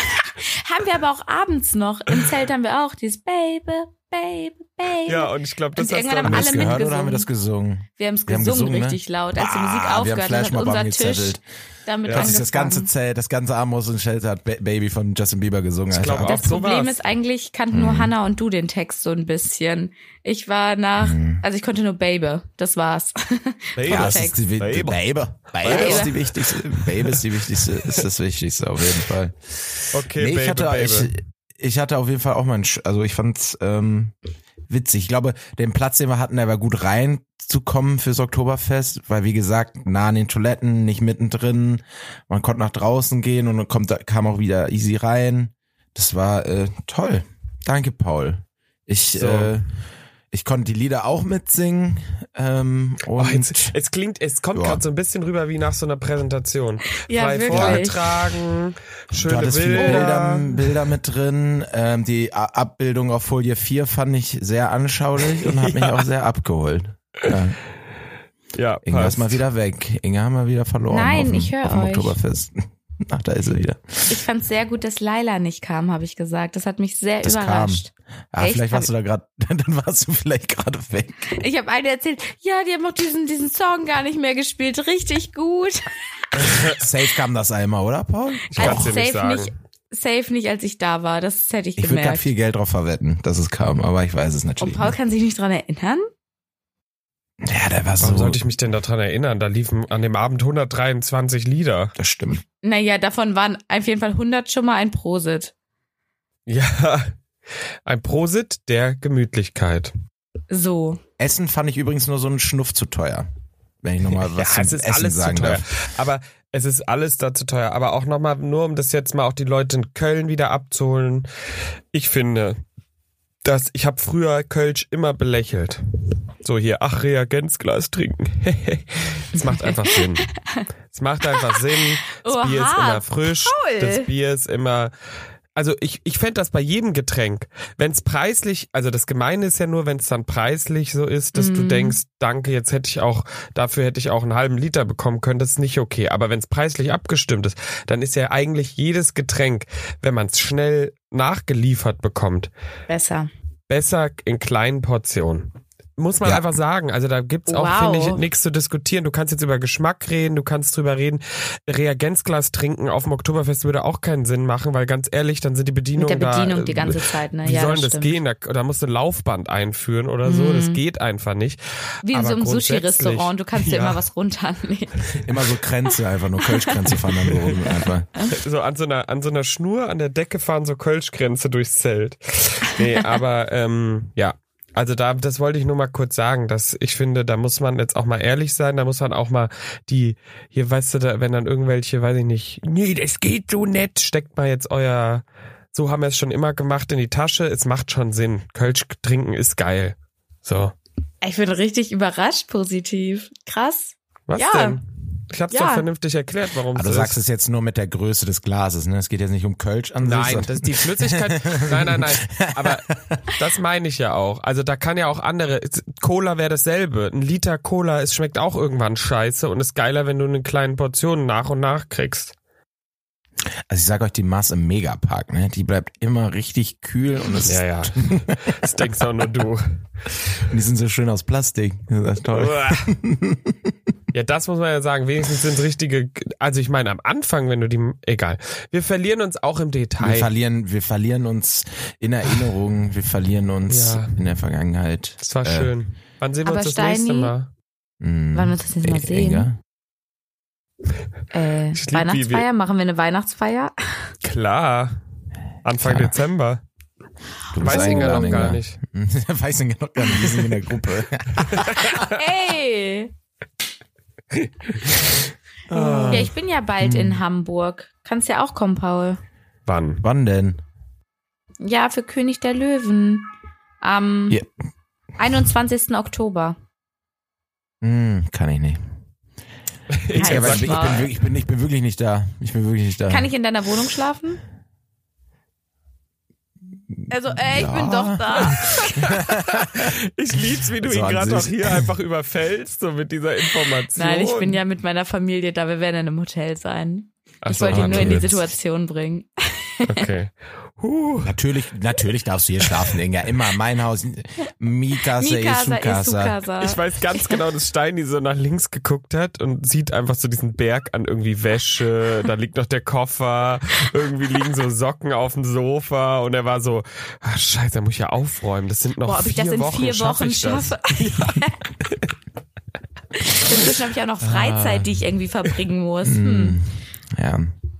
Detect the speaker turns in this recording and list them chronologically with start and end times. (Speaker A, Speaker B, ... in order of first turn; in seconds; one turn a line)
Speaker A: 0.1-7.3
Speaker B: 5.0-6.8
Speaker C: 6.2-11.4
Speaker A: 8.0-12.9
Speaker B: 12.0-12.3
Speaker C: 12.1-16.5
Speaker B: 15.9-16.9
Speaker A: 16.2-24.4
Speaker C: 17.7-18.1
Speaker C: 21.0-21.4
Speaker B: 23.8-25.0
Speaker C: 23.9-34.1
Speaker B: 25.6-26.3
Speaker A: 25.6-26.2
Speaker B: 26.8-27.2
Speaker B: 27.8-28.0
Speaker B: 29.9-31.1
Speaker C: 34.7-49.6
Speaker B: 49.1-49.5
Speaker C: 50.3-53.7
Speaker B: 53.2-60.4
Speaker C: 54.5-54.8
Speaker A: 57.1-58.0
Speaker C: 57.5-57.9
Speaker C: 59.1-67.6
Speaker A: 59.8-60.5
Speaker B: 65.4-66.0
Speaker B: 68.5-69.4
Speaker C: 68.8-74.2
Speaker A: 70.9-72.2
Speaker A: 74.1-78.9
Speaker C: 77.2-81.3
Speaker A: 81.3-85.8
Speaker B: 86.3-86.8
Speaker C: 86.6-88.9
Speaker B: 88.5-89.5
Speaker A: 88.5-92.3
Speaker C: 91.8-94.9
Speaker A: 94.6-96.1
Speaker C: 97.4-98.5
Speaker B: 98.0-101.9
Speaker C: 102.0-102.4
Speaker A: 102.6-105.5
Speaker B: 106.5-107.2
Speaker B: 107.8-109.9
Speaker A: 110.5-111.0
Speaker C: 111.2-113.3
Speaker C: 113.8-115.7
Speaker B: 114.1-121.3
Speaker B: 121.9-122.6
Speaker B: 123.4-125.8
Speaker B: 126.4-130.3
Speaker A: 129.4-130.6
Speaker B: 130.9-134.9
Speaker A: 132.2-134.1
Speaker B: 135.5-152.5
Speaker A: 141.3-141.9
Speaker A: 152.9-153.3
Speaker B: 153.7-174.0
Speaker A: 157.5-158.2
Speaker A: 166.0-168.2
Speaker A: 170.2-170.8
Speaker A: 172.0-175.2
Speaker C: 175.2-178.1
Speaker A: 176.4-177.0
Speaker B: 177.3-177.5
Speaker B: 178.2-200.7
Speaker A: 201.2-204.8
Speaker B: 204.3-207.2
Speaker A: 205.5-205.8
Speaker C: 206.7-213.2
Speaker B: 210.0-222.3
Speaker C: 223.7-228.5
Speaker B: 227.4-229.7
Speaker C: 230.5-233.7
Speaker B: 232.3-232.9
Speaker B: 234.1-240.3
Speaker C: 240.0-245.7
Speaker B: 243.7-244.2
Speaker B: 245.2-247.5
Speaker A: 246.4-247.3
Speaker C: 248.0-249.6
Speaker A: 248.3-249.5
Speaker A: 251.3-254.1
Speaker B: 251.7-252.4
Speaker B: 254.2-255.0
Speaker B: 255.6-256.6
Speaker C: 255.8-256.1
Speaker C: 257.5-262.1
Speaker B: 257.6-258.8
Speaker A: 257.6-258.3
Speaker B: 261.3-262.1
Speaker A: 262.0-263.1
Speaker B: 264.3-266.3
Speaker C: 265.7-267.2
Speaker A: 266.0-269.2
Speaker B: 269.6-270.0
Speaker C: 270.0-270.6
Speaker A: 271.6-274.4
Speaker A: 275.2-276.6
Speaker C: 277.8-278.8
Speaker B: 279.9-281.1
Speaker C: 280.1-283.3
Speaker A: 280.1-281.1
Speaker A: 283.1-284.4
Speaker C: 286.9-289.9
Speaker A: 287.1-289.0
Speaker B: 288.4-294.6
Speaker C: 290.8-291.9
Speaker A: 293.9-300.1
Speaker B: 297.4-298.3
Speaker C: 297.6-298.5
Speaker B: 299.8-301.4
Speaker C: 301.2-306.4
Speaker A: 305.2-307.4
Speaker B: 306.6-320.8
Speaker A: 319.0-321.7
Speaker A: 323.1-326.6
Speaker C: 324.2-325.1
Speaker C: 326.0-327.5